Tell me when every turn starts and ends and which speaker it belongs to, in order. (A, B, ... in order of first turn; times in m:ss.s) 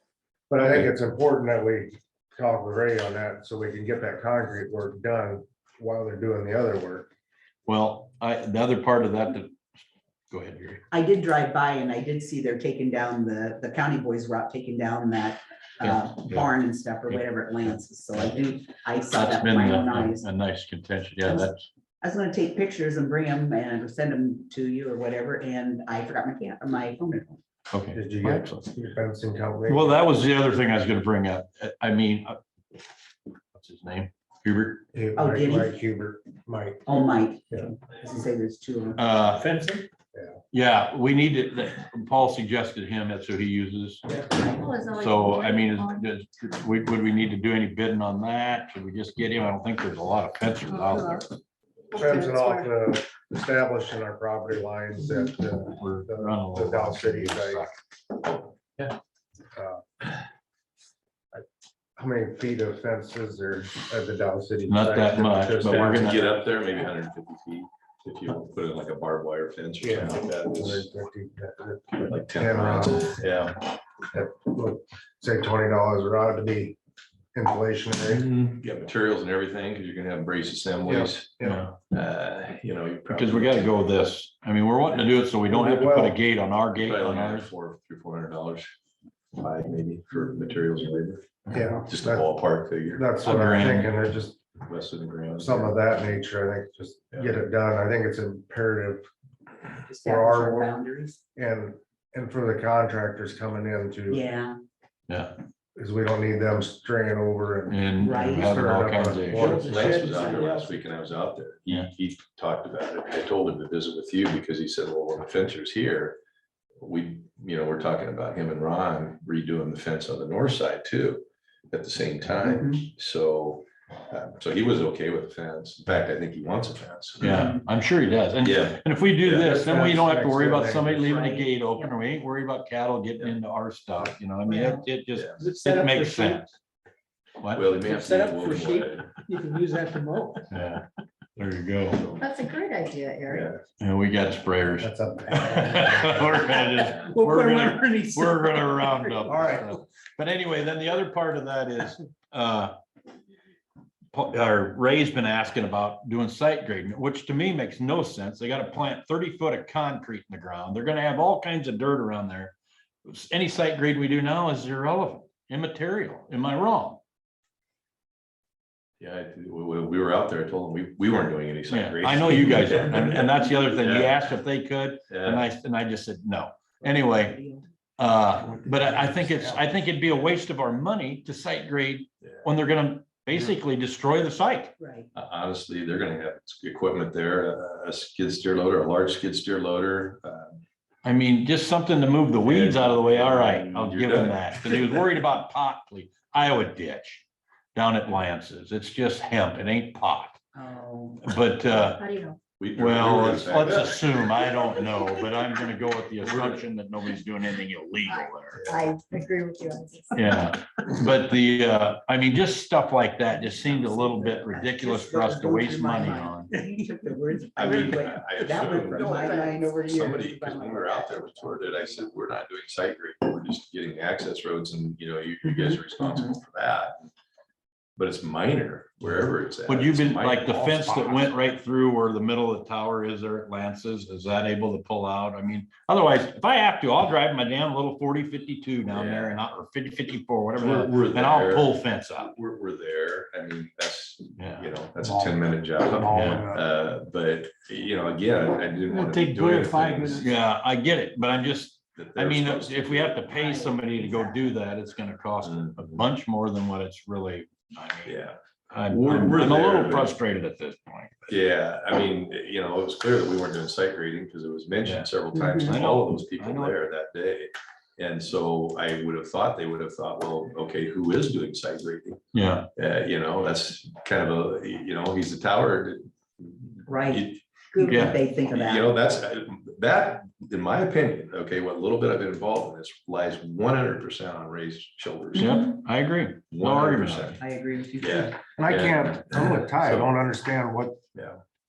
0:00.5-0:07.1 A
0:07.7-0:09.6 B
0:10.3-0:10.8 B
0:10.9-0:20.3 C
0:15.8-0:16.5 B
0:19.1-0:21.6 B
0:21.2-0:21.5 C
0:22.0-0:27.4 C
0:27.7-0:28.6 B
0:27.9-0:30.0 A
0:29.7-0:32.4 B
0:33.6-0:34.8 B
0:34.9-0:36.9 A
0:35.2-0:35.7 C
0:36.9-0:39.0 C
0:39.0-0:39.5 B
0:39.2-0:39.9 D
0:40.5-0:44.0 B
0:44.3-0:44.6 C
0:44.4-0:46.0 E
0:44.8-0:51.3 B
0:50.8-0:51.2 E
0:51.9-0:52.7 E
0:51.9-0:57.7 A
0:55.7-0:57.8 B
0:58.2-0:58.9 F
0:59.6-0:59.8 A
1:02.0-1:06.3 A
1:04.7-1:06.3 B
1:05.7-1:10.9 F
1:09.8-1:13.2 A
1:12.1-1:13.6 F
1:14.1-1:16.8 A
1:17.3-1:18.2 A
1:18.1-1:23.7 F
1:20.9-1:21.6 A
1:21.4-1:21.7 B
1:23.1-1:27.5 B
1:25.5-1:26.2 A
1:26.8-1:28.7 F
1:29.3-1:33.2 F
1:31.5-1:32.3 A
1:32.9-1:34.4 A
1:33.2-1:33.9 B
1:34.6-1:35.9 F
1:35.4-1:39.1 A
1:39.8-1:41.2 C
1:40.0-1:40.7 A
1:41.4-1:44.2 A
1:44.1-1:44.6 C
1:45.1-1:45.3 B
1:45.8-1:50.3 A
1:47.7-1:49.6 B
1:48.0-1:48.6 C
1:49.3-1:50.8 D
1:49.5-1:56.2 F
1:56.8-2:07.4 F
2:02.4-2:02.9 C
2:07.2-2:16.5 B
2:07.2-2:07.6 C
2:08.4-2:09.6 F
2:09.3-2:11.3 A
2:11.1-2:11.9 C
2:15.2-2:15.5 F
2:15.4-2:16.5 D
2:17.4-2:17.7 B
2:17.5-2:19.1 F
2:17.8-2:20.4 D
2:20.5-2:20.8 B
2:21.4-2:22.0 B
2:21.9-2:22.2 F
2:22.2-2:23.5 E
2:23.3-2:23.6 F
2:23.8-2:32.8 B
2:24.8-2:26.6 A
2:26.9-2:29.8 D
2:34.1-2:47.0 B
2:49.0-2:54.3 F
2:51.7-2:57.4 B
2:55.1-2:55.4 F
2:56.8-2:57.7 C
2:58.0-3:04.7 B
2:58.4-2:59.8 A
3:04.8-3:05.1 C
3:05.2-3:10.6 F
3:11.0-3:17.2 B
3:12.4-3:15.1 F
3:17.8-3:20.4 B
3:20.5-3:21.2 C
3:21.2-3:22.0 B
3:21.8-3:22.4 E
3:22.6-3:24.5 F
3:22.8-3:28.7 B
3:26.2-3:26.6 F
3:28.1-3:30.5 E
3:28.6-3:28.8 F
3:30.1-3:36.5 B
3:33.5-3:42.1 C
3:37.6-3:47.1 F
3:38.9-3:39.8 D
3:45.4-3:46.3 C
3:48.0-3:51.2 F
3:49.7-4:02.3 B
3:58.9-3:59.3 F
4:00.6-4:10.3 F
4:04.4-4:04.7 B
4:05.1-4:05.3 A
4:05.9-4:06.6 A
4:06.1-4:06.5 B
4:08.9-4:10.3 D
4:10.2-4:18.1 B
4:12.0-4:13.2 F
4:13.3-4:14.4 C
4:15.4-4:16.0 F
4:18.0-4:20.1 F
4:18.7-4:21.3 B
4:21.3-4:32.2 F
4:24.8-4:26.8 B
4:25.3-4:25.7 C
4:32.3-4:32.7 B
4:32.8-4:37.4 F
4:36.8-4:38.9 C
4:37.8-4:38.2 B
4:38.0-4:45.6 F
4:45.3-4:45.6 C
4:45.4-4:47.4 B
4:46.5-4:47.4 F
4:47.4-4:48.3 C
4:48.0-4:50.1 F
4:48.6-4:51.0 A
4:51.1-4:51.4 F